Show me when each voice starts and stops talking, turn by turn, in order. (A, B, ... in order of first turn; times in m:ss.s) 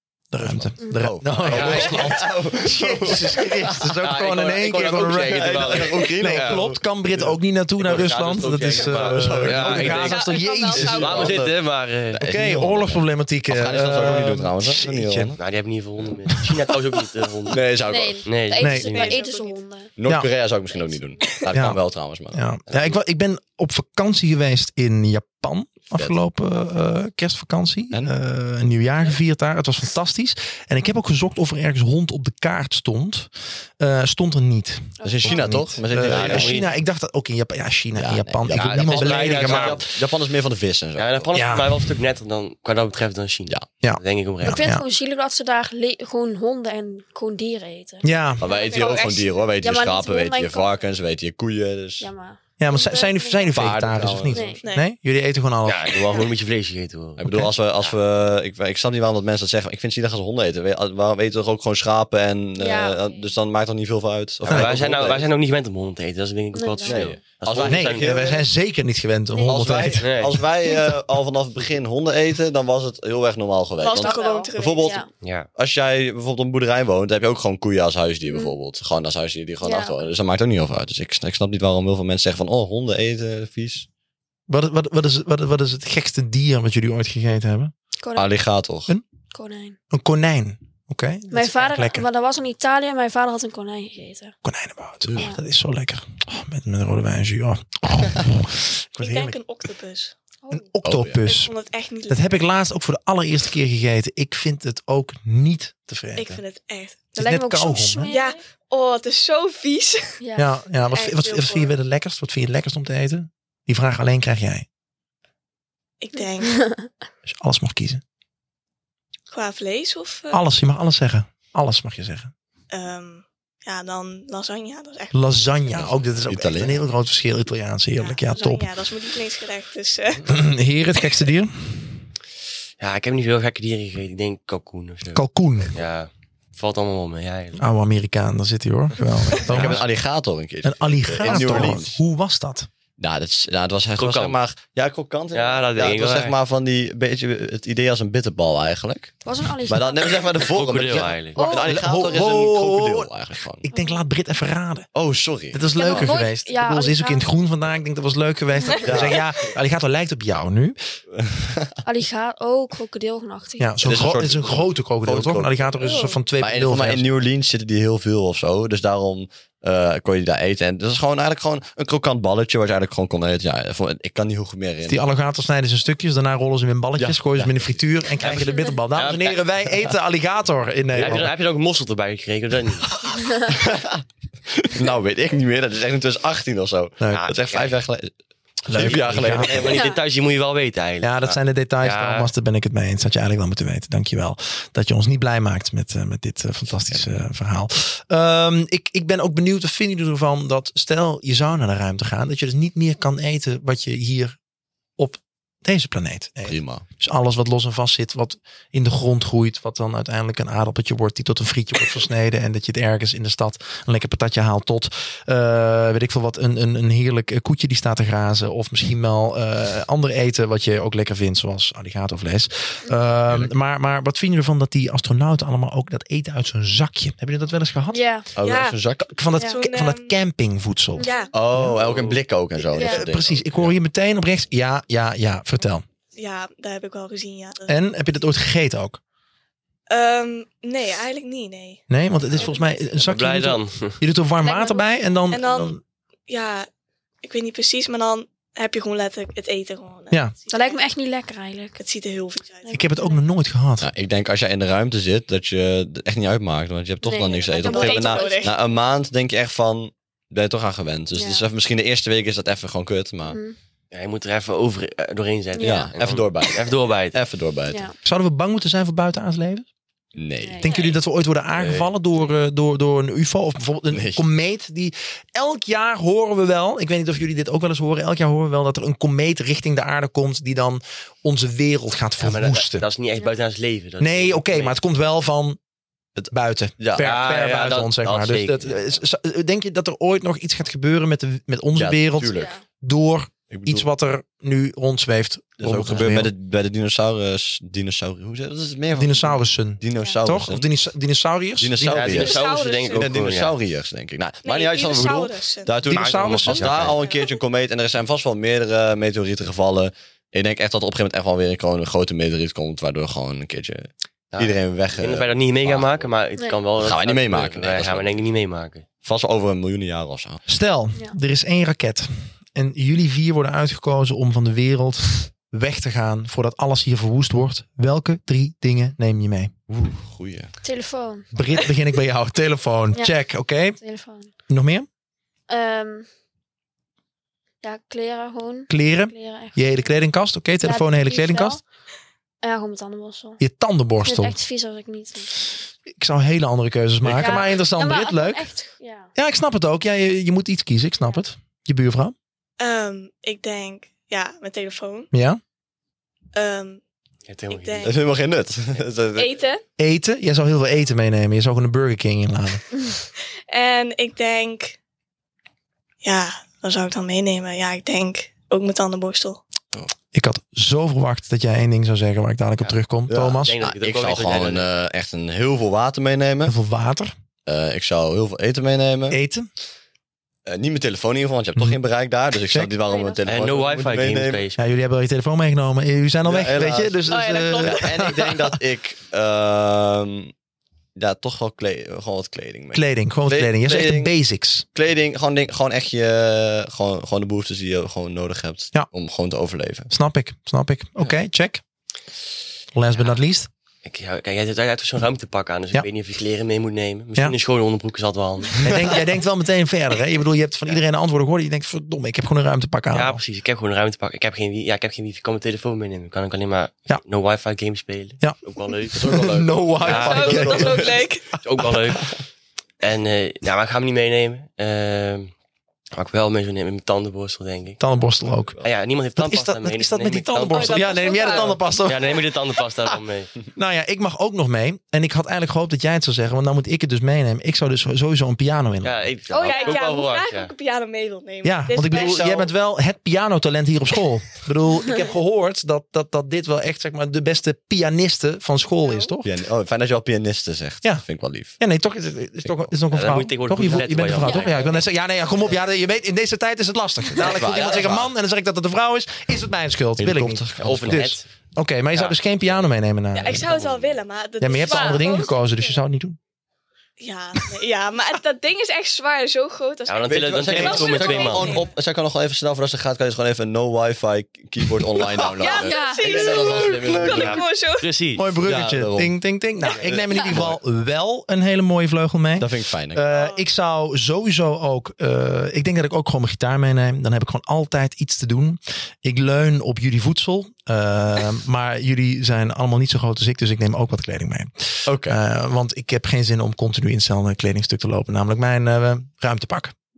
0:00.3-0:11.3 A
0:00.4-0:03.8 B
0:01.4-0:02.1 C
0:03.8-0:06.6 C
0:05.3-0:06.8 B
0:07.8-0:12.2 C
0:07.9-0:11.6 B
0:09.8-0:11.4 D
0:12.1-0:15.4 B
0:12.2-0:15.4 A
0:15.4-0:17.6 C
0:17.5-0:18.3 B
0:17.9-0:19.9 E
0:18.2-0:19.2 C
0:18.6-0:19.0 A
0:18.8-0:19.6 D
0:20.0-0:22.5 B
0:20.7-0:21.0 E
0:21.5-0:21.8 A
0:22.3-0:39.8 A
0:22.7-0:22.9 C
0:35.0-0:35.8 E
0:35.0-0:36.6 B
0:36.0-0:36.7 C
0:37.9-0:41.3 B
0:38.5-0:39.8 C
0:41.0-0:44.6 C
0:41.3-0:41.8 A
0:43.8-0:44.8 A
0:44.5-0:50.8 E
0:48.0-0:48.4 A
0:48.4-0:52.1 B
0:48.4-0:49.5 D
0:52.0-0:53.5 E
0:52.6-0:56.0 A
0:53.5-0:54.6 B
0:54.3-0:54.6 E
0:54.6-0:54.9 D
0:55.6-0:58.0 C
0:57.2-1:05.3 B
0:57.2-0:57.5 A
1:02.6-1:03.3 E
1:04.4-1:04.9 A
1:04.4-1:08.2 C
1:06.5-1:07.1 E
1:06.8-1:08.4 B
1:07.6-1:10.2 A
1:09.4-1:15.0 B
1:09.8-1:10.4 C
1:13.8-1:15.0 D
1:13.9-1:15.1 E
1:15.2-1:15.5 C
1:15.5-1:23.9 B
1:18.2-1:18.6 E
1:19.6-1:20.1 E
1:24.5-1:27.7 A
1:28.0-1:28.3 E
1:28.1-1:28.9 B
1:29.3-1:29.8 E
1:29.9-1:32.0 A
1:31.3-1:34.3 E
1:34.4-1:39.4 A
1:35.0-1:35.3 B
1:39.0-1:40.2 D
1:40.4-1:40.7 E
1:40.5-1:41.5 A
1:40.8-1:41.2 B
1:41.2-1:42.3 D
1:42.1-1:46.4 A
1:46.2-1:47.1 D
1:47.1-1:48.4 E
1:47.2-1:48.2 A
1:48.0-1:50.2 D
1:50.2-1:50.6 E
1:50.4-1:54.6 A
1:50.9-1:51.7 D
1:56.0-1:56.6 D
1:56.6-1:56.9 E
1:57.2-1:58.0 A
1:59.3-2:00.4 D
2:00.3-2:02.3 A
2:02.7-2:05.3 D
2:05.1-2:08.7 A
2:05.8-2:06.8 B
2:08.0-2:10.4 D
2:10.2-2:12.0 A
2:12.8-2:17.6 C
2:15.1-2:15.7 A
2:17.6-2:19.8 A
2:19.4-2:22.0 B
2:19.5-2:19.8 C
2:20.6-2:22.7 A
2:23.0-2:33.7 B
2:24.0-2:24.4 C
2:25.3-2:26.4 C
2:29.2-2:30.4 E
2:30.4-2:31.4 C
2:31.4-2:31.8 E
2:31.4-2:33.1 A
2:33.6-2:34.9 A
2:33.7-2:34.0 E
2:34.9-2:36.1 B
2:35.5-2:40.8 A
2:35.8-2:37.3 E
2:38.8-2:39.3 B
2:41.2-2:41.7 B
2:41.8-2:43.7 E
2:43.6-2:47.1 A
2:43.8-2:45.8 B
2:45.8-2:46.2 D
2:46.4-2:55.0 B
2:54.9-3:01.3 A
2:57.0-2:57.8 B
2:58.2-2:59.4 C
3:00.9-3:01.2 B
3:00.9-3:03.0 C
3:03.4-3:08.1 B
3:07.1-3:07.8 C
3:08.6-3:09.8 B
3:08.7-3:09.7 A
3:08.8-3:12.3 C
3:09.6-3:10.0 E
3:11.0-3:24.4 A
3:25.0-3:48.0 A
3:26.4-3:26.8 B
3:47.9-3:48.2 E
3:48.3-3:49.1 B
3:48.4-3:48.8 D
3:49.0-3:51.8 A
3:49.4-3:50.2 D
3:51.0-3:51.3 E
3:51.0-3:51.4 D
3:51.3-3:53.8 B
3:51.8-3:52.1 C
3:52.7-3:53.0 E
3:52.8-3:55.8 A
3:56.2-3:57.8 D
3:57.6-3:59.0 A
3:59.9-4:02.7 D
4:01.9-4:05.8 A
4:03.0-4:04.0 C
4:04.4-4:04.9 E
4:05.3-4:06.7 D
4:07.2-4:10.8 D
4:10.5-4:11.8 E
4:11.8-4:12.8 D
4:12.6-4:13.2 E
4:12.7-4:13.9 A
4:13.8-4:23.4 B
4:17.0-4:18.5 E
4:17.5-4:18.6 D
4:21.1-4:21.4 E
4:23.2-4:23.6 E
4:23.9-4:27.2 C
4:25.5-4:25.9 E
4:25.6-4:27.9 B
4:27.7-4:27.9 E
4:28.0-4:29.7 A
4:30.1-4:30.8 B
4:30.4-4:30.9 E
4:30.6-4:42.8 A
4:31.6-4:31.9 C
4:33.9-4:34.2 B
4:42.2-4:44.8 C
4:44.0-4:45.6 A
4:46.2-4:47.2 B
4:46.3-4:56.3 A
4:47.0-4:49.0 C
4:51.8-4:52.6 B
4:52.3-4:52.6 E
4:53.5-4:53.9 B
4:55.6-5:00.7 B
4:59.0-5:02.3 A
5:01.6-5:02.4 B
5:01.9-5:03.6 C
5:02.1-5:03.2 D
5:02.9-5:16.0 B
5:04.4-5:05.8 D
5:05.8-5:06.8 A
5:05.9-5:07.0 C
5:07.0-5:07.3 D
5:14.3-5:18.8 C
5:16.8-5:18.1 B
5:19.0-5:20.4 B
5:20.5-5:29.5 A
5:29.7-5:30.5 B
5:30.6-5:31.3 E
5:31.3-5:33.8 A
5:33.8-5:34.3 E
5:34.5-5:34.9 A
5:35.5-5:36.1 E
5:37.6-5:39.8 E
5:38.7-5:41.6 A
5:40.6-5:41.6 E
5:42.4-5:43.4 E
5:43.4-5:44.4 A
5:44.0-5:45.4 E
5:45.9-5:48.5 A
5:47.0-5:47.3 B
5:47.1-5:49.1 E
5:49.1-5:52.1 A
5:52.6-5:55.1 D
5:55.1-5:55.4 A
5:56.3-5:56.8 D
5:57.3-5:58.0 C
5:57.5-5:58.0 D
5:57.8-5:59.4 B
5:59.1-5:59.6 D
5:59.8-6:02.6 A
6:03.5-6:04.8 D
6:06.0-6:09.4 D
6:10.1-6:13.6 A
6:13.1-6:16.5 B
6:13.4-6:14.7 C
6:16.4-6:17.1 A
6:17.4-6:19.2 B
6:19.1-6:19.5 A
6:20.4-6:24.5 B
6:22.8-6:23.2 E
6:23.2-6:24.6 C
6:24.6-6:28.6 A
6:26.2-6:30.3 B
6:27.1-6:28.2 D
6:31.0-6:34.1 B
6:32.7-6:34.6 A
6:34.7-6:39.9 B
6:39.9-6:41.6 A
6:42.7-6:43.5 A
6:43.8-6:49.1 C
6:48.6-6:53.2 A
6:52.9-6:59.0 C
6:58.9-7:01.9 A
6:59.0-7:01.0 B
6:59.8-7:00.4 C
6:59.9-7:01.3 D
7:01.4-7:02.2 C
7:02.8-7:05.3 C
7:05.9-7:07.8 C
7:07.8-7:08.6 A
7:08.6-7:13.3 C
7:09.2-7:12.2 A
7:10.5-7:11.6 D
7:13.5-7:19.0 A
7:18.8-7:20.5 C
7:19.3-7:19.9 E
7:19.4-7:22.5 D
7:21.4-7:29.3 A
7:28.8-7:29.1 D
7:29.2-7:31.6 B
7:31.6-7:43.5 A
7:32.9-7:34.8 C
7:34.2-7:34.5 E
7:37.1-7:38.1 B
7:40.0-7:41.1 B
7:40.6-7:41.3 C
7:43.1-7:45.4 D
7:43.2-7:44.0 C
7:44.4-7:46.2 A
7:44.7-7:45.0 E
7:47.0-7:51.7 D
7:49.9-7:51.6 C
7:50.1-7:57.5 B
7:55.1-7:57.9 D
7:55.4-7:56.5 E
7:57.0-7:58.3 C
7:58.2-8:19.7 A
7:58.4-7:59.1 B
7:59.7-8:00.6 B
8:02.4-8:03.0 B
8:03.1-8:03.4 D
8:14.8-8:15.2 B